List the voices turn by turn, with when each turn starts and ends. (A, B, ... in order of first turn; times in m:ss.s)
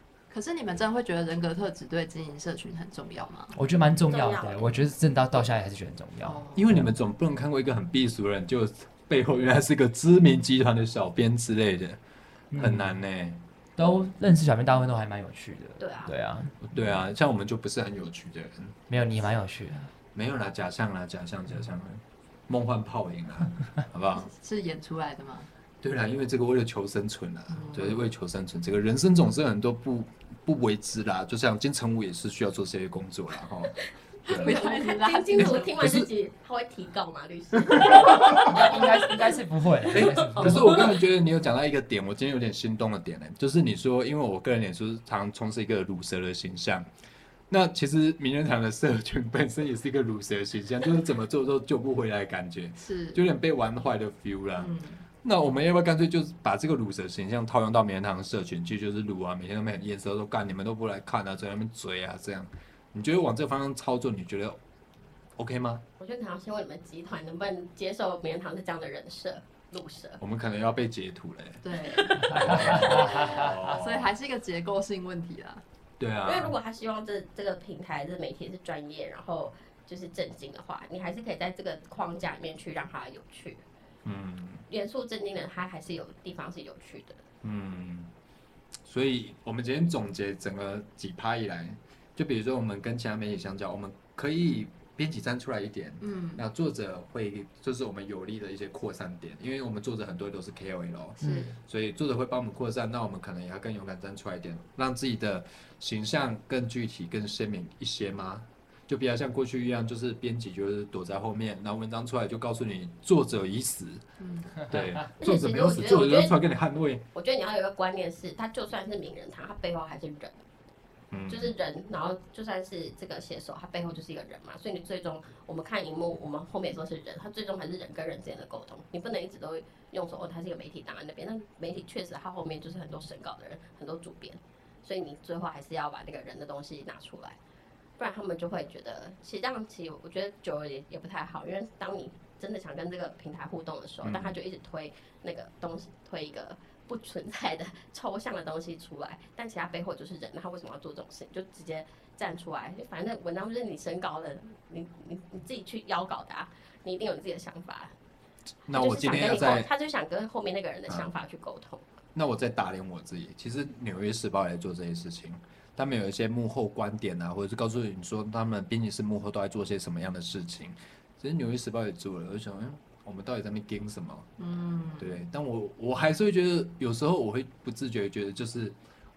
0:00.3-0:03.6 A
0:03.5-0:06.9 B
0:04.1-0:04.7 C
0:06.2-0:06.7 A
0:06.5-0:12.0 D
0:12.5-0:13.0 B
0:12.6-0:13.4 D
0:13.8-0:16.6 B
0:15.8-0:16.1 C
0:16.6-0:18.8 D
0:18.9-0:19.9 B
0:20.1-0:24.3 D
0:24.2-0:25.5 A
0:25.8-0:34.6 D
0:27.5-0:28.1 A
0:34.3-0:35.8 A
0:34.3-0:39.4 C
0:35.4-0:36.1 D
0:37.6-0:38.7 D
0:38.2-0:40.8 B
0:39.9-0:46.9 D
0:39.9-0:41.0 C
0:47.5-1:04.6 D
0:52.8-0:53.2 A
0:54.6-0:55.0 A
1:05.4-1:05.8 D
1:06.0-1:10.2 C
1:10.2-1:14.1 D
1:11.6-1:15.6 A
1:12.3-1:13.4 B
1:16.0-1:16.6 D
1:16.2-1:23.6 C
1:24.0-1:24.6 D
1:24.7-1:27.2 C
1:27.4-1:28.1 D
1:28.9-1:54.0 D
1:36.0-1:36.4 A
1:41.2-1:41.5 B
1:41.2-1:41.5 A
1:54.2-1:54.6 A
1:54.7-1:57.0 D
1:55.2-1:56.4 C
1:57.1-2:00.4 C
2:01.1-2:01.5 D
2:01.3-2:17.4 C
2:18.0-2:37.9 C
2:24.0-2:24.4 D
2:38.7-2:39.7 D
2:38.7-2:41.9 C
2:42.2-2:54.3 D
2:54.4-2:55.2 A
2:55.0-2:58.8 D